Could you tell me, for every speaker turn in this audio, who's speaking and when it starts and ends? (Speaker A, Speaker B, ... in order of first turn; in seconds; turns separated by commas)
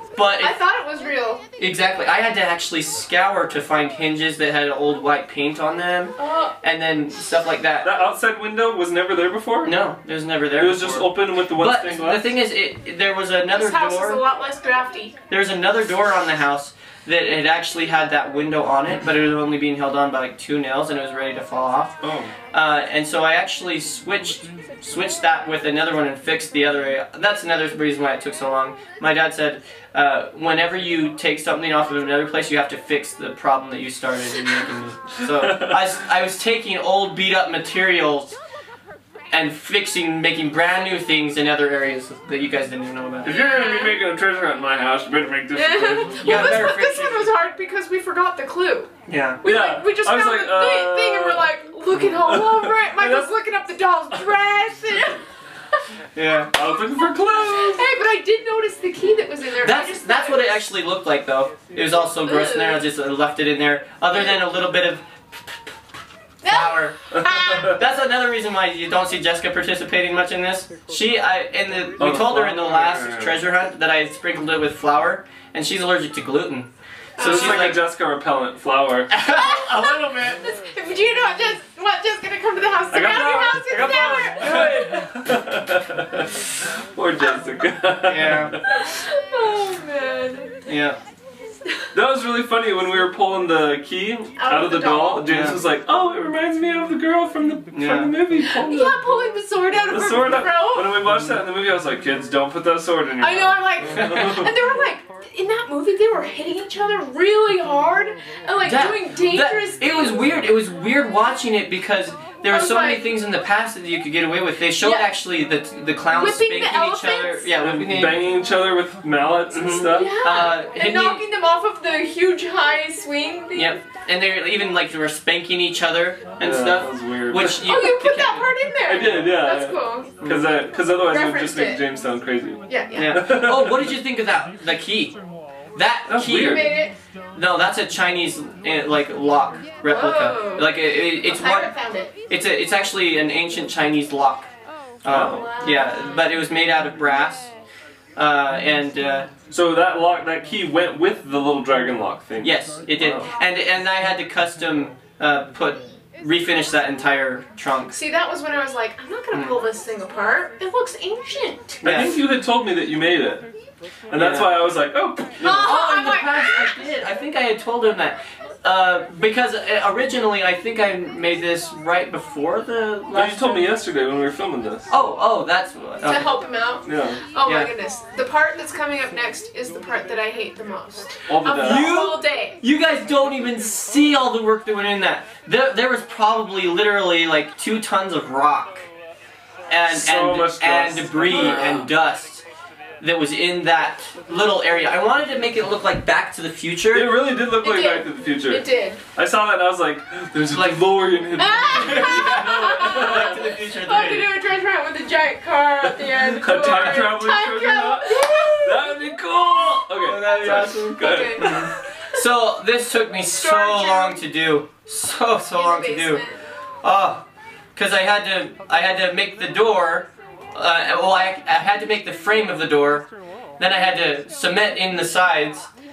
Speaker A: 0.1-0.6, Speaker B: 0.4-1.4, Speaker A: 1.6-7.9, Speaker B: 6.2-6.6, Speaker C: 7.8-9.8, Speaker A: 9.6-14.2, Speaker C: 10.6-12.3, Speaker B: 13.5-15.1, Speaker A: 15.3-22.0, Speaker C: 22.0-22.3, Speaker A: 22.5-38.4, Speaker C: 35.3-35.9, Speaker A: 39.3-43.3, Speaker C: 43.2-46.7, Speaker B: 43.2-44.0, Speaker B: 45.5-48.9, Speaker A: 46.2-47.3, Speaker A: 49.1-49.4, Speaker B: 49.4-55.2, Speaker C: 49.4-53.3, Speaker A: 56.1-56.5, Speaker C: 56.5-57.9, Speaker B: 57.5-60.6, Speaker A: 59.6-65.1, Speaker B: 62.0-62.8, Speaker B: 66.4-67.8, Speaker A: 66.5-77.8, Speaker C: 72.0-73.4, Speaker B: 77.2-77.7, Speaker C: 77.2-79.1, Speaker A: 79.1-80.4, Speaker B: 79.3-84.8, Speaker C: 82.9-88.6, Speaker A: 88.0-88.6, Speaker B: 88.7-90.6, Speaker A: 90.7-91.0, Speaker C: 91.9-99.0, Speaker B: 94.4-95.4, Speaker A: 95.2-95.6, Speaker A: 97.7-98.1, Speaker B: 98.4-101.0, Speaker C: 99.9-104.6, Speaker B: 103.2-110.2, Speaker A: 108.6-118.2, Speaker B: 112.5-113.2, Speaker B: 114.8-115.1, Speaker B: 116.1-117.7, Speaker C: 117.6-120.2, Speaker A: 119.5-121.2, Speaker B: 119.8-123.7, Speaker A: 123.5-128.5, Speaker C: 126.4-127.6, Speaker B: 127.4-130.1, Speaker C: 128.8-133.9, Speaker A: 130.2-130.5, Speaker B: 131.0-131.8, Speaker B: 132.7-133.2, Speaker A: 132.9-135.2, Speaker A: 135.8-141.7, Speaker C: 136.1-136.9, Speaker B: 136.3-136.9, Speaker B: 139.8-142.1, Speaker A: 142.3-144.5, Speaker A: 145.0-147.5, Speaker C: 145.1-145.5, Speaker B: 145.1-146.0, Speaker A: 148.2-149.3, Speaker C: 149.5-153.3, Speaker A: 152.4-158.0, Speaker B: 157.9-161.8, Speaker A: 159.3-159.6, Speaker A: 161.8-162.2, Speaker C: 161.8-163.4, Speaker C: 164.1-165.7, Speaker A: 164.1-164.6, Speaker B: 165.4-166.8, Speaker A: 165.4-173.7, Speaker C: 173.1-174.9, Speaker A: 174.9-176.4, Speaker B: 176.0-182.6, Speaker C: 176.8-177.2, Speaker A: 177.4-177.7, Speaker C: 181.3-182.0, Speaker A: 181.6-188.8, Speaker A: 189.7-192.4, Speaker C: 189.9-191.9, Speaker A: 193.0-197.1, Speaker C: 196.9-203.3, Speaker B: 197.5-199.0, Speaker A: 200.5-201.1, Speaker B: 201.3-209.0, Speaker A: 201.7-204.3, Speaker C: 206.0-211.8, Speaker A: 210.0-216.2, Speaker B: 211.0-211.7, Speaker B: 213.3-214.2, Speaker B: 215.5-216.4, Speaker A: 216.8-217.2, Speaker A: 217.8-223.1, Speaker A: 223.6-225.7